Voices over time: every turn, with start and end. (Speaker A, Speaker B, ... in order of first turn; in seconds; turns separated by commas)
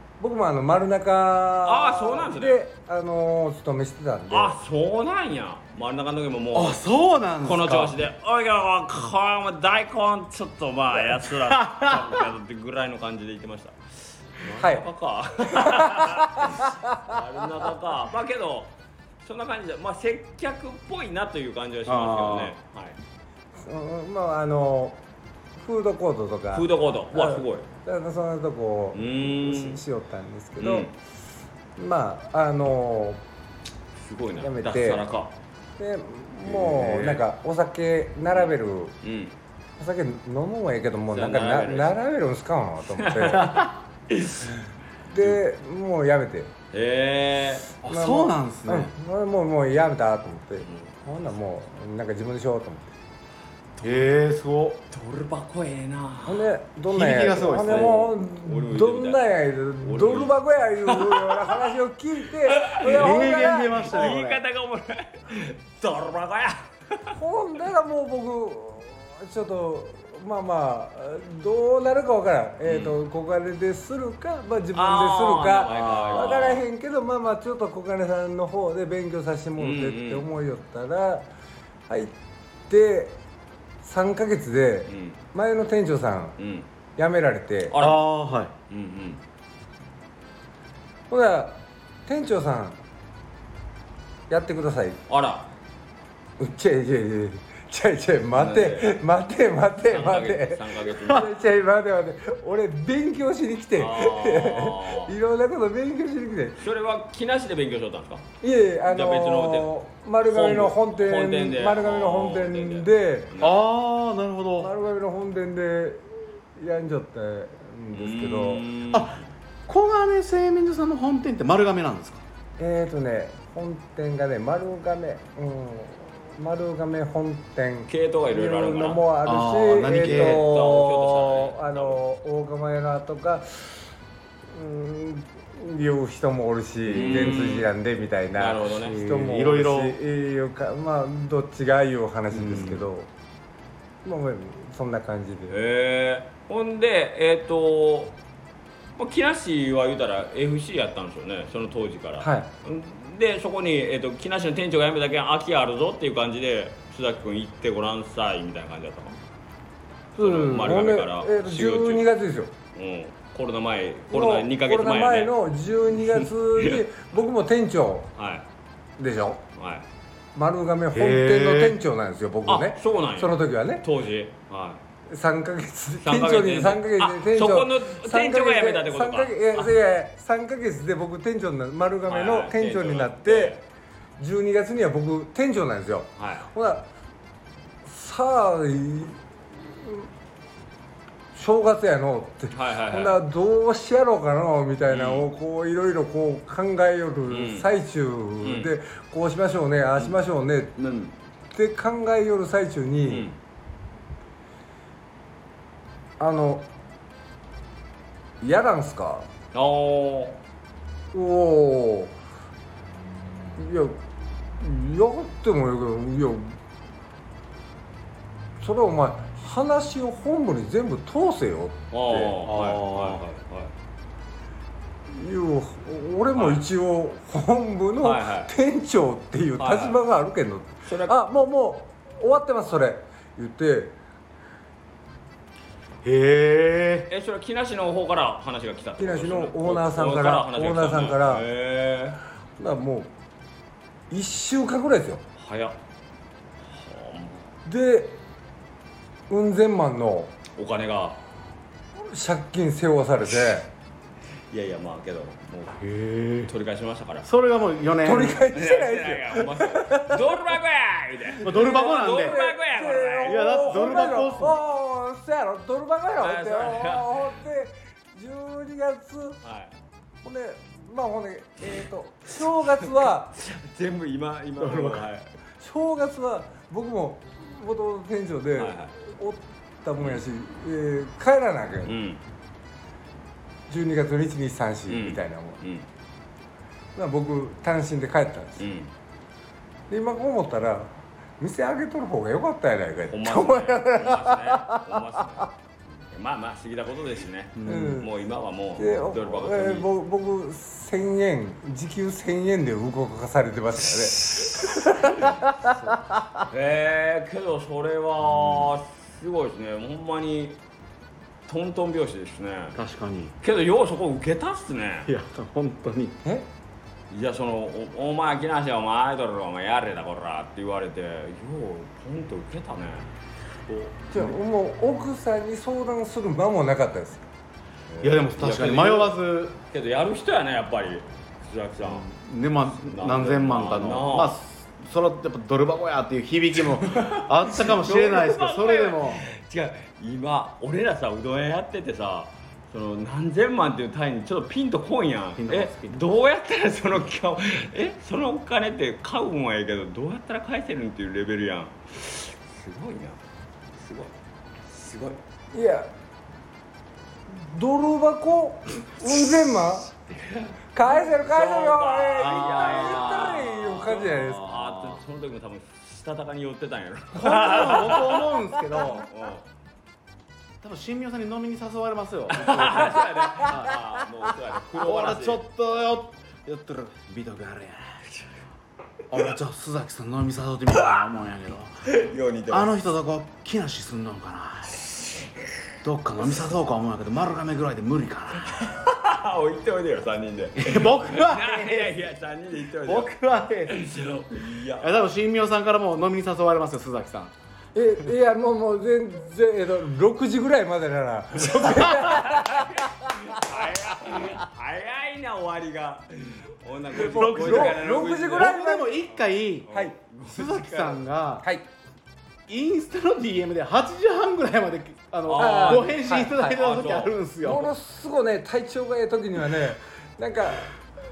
Speaker A: 0.2-4.6, Speaker B: 1.6-2.6, Speaker B: 4.3-6.8, Speaker C: 6.5-8.0, Speaker B: 7.4-23.0, Speaker C: 11.1-12.2, Speaker A: 14.6-14.9, Speaker A: 15.5-17.2, Speaker C: 21.9-22.6, Speaker A: 23.6-25.0, Speaker A: 25.6-30.9, Speaker B: 26.5-27.7, Speaker B: 28.9-29.8, Speaker B: 30.6-30.9, Speaker A: 31.8-33.2, Speaker B: 34.0-35.3, Speaker A: 34.4-35.0, Speaker A: 35.8-39.0, Speaker C: 36.5-37.1, Speaker B: 36.6-37.2, Speaker B: 39.0-39.3, Speaker A: 39.8-43.6, Speaker B: 41.1-42.0, Speaker B: 43.0-44.6, Speaker A: 45.1-46.5, Speaker B: 46.7-47.7, Speaker C: 47.8-48.9, Speaker A: 47.8-52.9, Speaker B: 50.6-50.9, Speaker B: 53.8-54.1, Speaker C: 53.8-54.8, Speaker B: 54.9-56.5, Speaker A: 56.3-64.2, Speaker C: 56.9-58.0, Speaker B: 57.5-59.2, Speaker B: 59.8-61.7, Speaker B: 62.5-67.2, Speaker C: 62.8-64.4, Speaker A: 67.1-81.3, Speaker B: 72.7-73.0, Speaker B: 74.8-76.6, Speaker C: 75.7-76.4, Speaker B: 79.6-80.3, Speaker A: 82.7-83.2, Speaker A: 83.8-86.4, Speaker B: 84.9-85.2, Speaker B: 86.4-86.7, Speaker A: 87.0-87.8, Speaker B: 87.7-88.0, Speaker C: 87.8-88.5, Speaker B: 88.7-89.2, Speaker A: 91.1-92.8, Speaker A: 94.3-95.0, Speaker B: 95.1-95.5, Speaker A: 96.4-106.6, Speaker B: 98.3-99.0, Speaker B: 99.9-101.4, Speaker B: 103.8-105.1, Speaker B: 106.6-108.3, Speaker A: 108.4-113.3, Speaker B: 108.9-109.7, Speaker B: 110.2-113.6, Speaker C: 113.4-114.7, Speaker A: 114.6-116.0, Speaker A: 116.6-118.6, Speaker B: 117.9-119.3, Speaker C: 118.9-122.2, Speaker A: 122.6-133.9, Speaker B: 127.9-129.0, Speaker C: 129.2-130.4, Speaker B: 130.0-132.0, Speaker A: 134.5-143.1, Speaker B: 136.9-137.7, Speaker C: 137.0-137.3, Speaker B: 138.4-139.2, Speaker C: 139.1-140.0, Speaker C: 142.3-142.9, Speaker A: 144.0-145.6, Speaker B: 145.5-148.2, Speaker B: 149.0-159.2, Speaker A: 152.2-152.5, Speaker A: 160.2-162.5, Speaker B: 160.2-162.1, Speaker B: 162.7-165.3, Speaker A: 164.1-168.1, Speaker B: 166.0-166.8, Speaker B: 168.2-168.5, Speaker A: 169.0-169.4, Speaker B: 169.6-169.9, Speaker A: 170.3-173.9, Speaker C: 170.9-171.8, Speaker B: 172.5-174.8, Speaker A: 175.1-183.6, Speaker B: 176.0-179.7, Speaker B: 182.1-183.6, Speaker A: 184.2-186.9, Speaker B: 186.2-186.5, Speaker A: 187.8-190.1, Speaker A: 191.3-200.8, Speaker B: 192.5-193.2, Speaker B: 194.9-195.3, Speaker B: 197.3-197.7, Speaker B: 198.4-198.7, Speaker B: 200.8-201.1, Speaker A: 201.5-203.3, Speaker B: 203.1-203.4, Speaker A: 206.2-206.7, Speaker A: 208.4-209.3, Speaker B: 209.5-210.4, Speaker A: 211.1-212.1, Speaker A: 213.6-214.0, Speaker A: 214.6-216.6, Speaker A: 218.6-222.3, Speaker B: 221.9-223.7, Speaker C: 222.4-223.2, Speaker A: 225.1-234.0, Speaker B: 226.3-226.7, Speaker B: 228.0-228.5, Speaker B: 229.6-230.0, Speaker B: 230.8-231.2, Speaker C: 236.0-237.1, Speaker B: 237.1-242.2, Speaker A: 239.0-241.4, Speaker A: 242.6-243.1, Speaker A: 244.1-245.2, Speaker B: 245.4-245.8, Speaker B: 246.7-247.5, Speaker A: 247.7-248.2, Speaker A: 249.3-250.3, Speaker B: 250.6-251.2, Speaker A: 252.0-253.7, Speaker B: 254.5-255.8, Speaker C: 255.8-256.5, Speaker B: 256.5-257.3, Speaker C: 257.2-258.4, Speaker A: 258.0-260.5, Speaker B: 258.5-264.4, Speaker A: 261.4-269.4, Speaker C: 261.4-262.4, Speaker C: 263.2-264.6, Speaker B: 266.2-267.2, Speaker B: 269.4-269.7, Speaker A: 270.2-273.3, Speaker B: 273.0-275.3, Speaker C: 274.6-275.0, Speaker A: 275.6-281.9, Speaker B: 278.6-278.9, Speaker B: 281.9-282.2, Speaker A: 283.7-285.6, Speaker B: 284.9-285.9, Speaker A: 286.9-288.6, Speaker B: 288.6-288.9, Speaker A: 289.9-295.2, Speaker B: 293.1-299.9, Speaker C: 297.6-298.0, Speaker A: 297.6-298.1, Speaker A: 298.8-305.7, Speaker B: 304.3-305.4, Speaker B: 306.5-310.6, Speaker C: 308.3-308.7, Speaker B: 311.5-312.8, Speaker C: 312.8-313.4, Speaker B: 313.4-315.1, Speaker C: 315.1-316.2, Speaker B: 317.1-323.1, Speaker B: 323.7-324.0, Speaker A: 324.1-327.3, Speaker B: 327.9-332.1, Speaker C: 328.0-329.6, Speaker C: 331.8-339.2, Speaker B: 332.7-334.4, Speaker B: 336.8-353.2, Speaker C: 345.4-346.1, Speaker B: 353.8-354.1, Speaker B: 354.7-355.2, Speaker A: 355.5-355.9, Speaker A: 357.3-359.9, Speaker B: 359.9-369.4, Speaker A: 360.7-364.5, Speaker C: 362.2-365.0, Speaker C: 367.1-369.1, Speaker C: 370.6-373.9, Speaker B: 372.3-375.4, Speaker C: 374.8-378.0, Speaker C: 379.1-381.9, Speaker B: 381.9-382.9, Speaker C: 382.5-384.9, Speaker C: 385.8-388.7, Speaker B: 388.4-395.1, Speaker C: 390.6-392.1, Speaker C: 392.7-393.8, Speaker C: 394.8-397.3, Speaker A: 397.8-403.3, Speaker B: 401.5-408.6, Speaker A: 406.9-409.1, Speaker C: 406.9-409.7, Speaker B: 409.6-411.1, Speaker A: 409.7-409.9, Speaker C: 410.2-411.5, Speaker A: 411.4-411.7, Speaker C: 412.5-417.7, Speaker B: 415.3-417.1, Speaker A: 415.4-416.5, Speaker A: 417.4-420.8